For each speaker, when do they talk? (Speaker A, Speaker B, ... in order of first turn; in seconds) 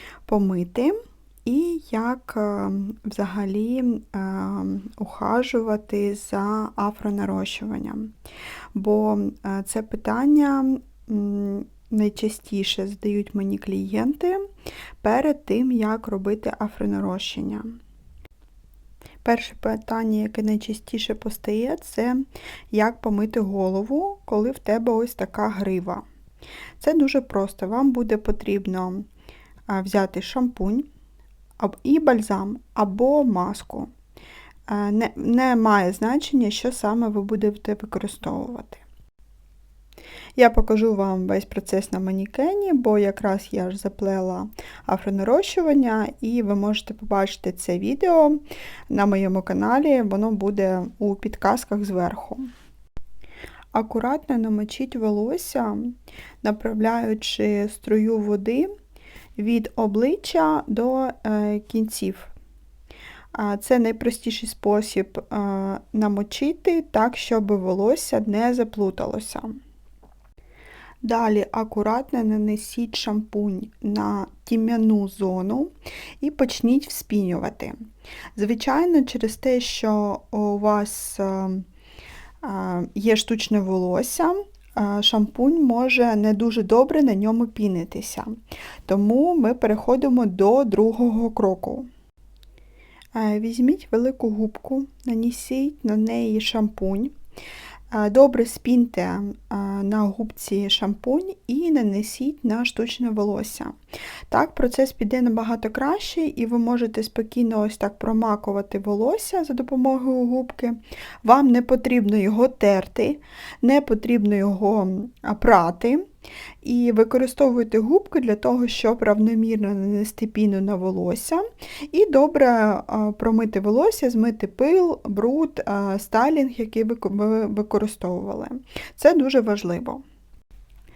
Speaker A: 0.2-8.1, 8.7-14.4, 15.0-17.8, 19.2-26.0, 26.8-29.1, 29.7-30.9, 31.6-33.9, 34.7-38.8, 40.4-52.5, 53.7-58.7, 59.4-62.3, 63.3-69.6, 71.0-77.8, 78.3-81.7, 82.4-88.4, 88.9-91.9, 93.1-97.1, 97.9-103.8, 104.3-116.0, 116.6-130.0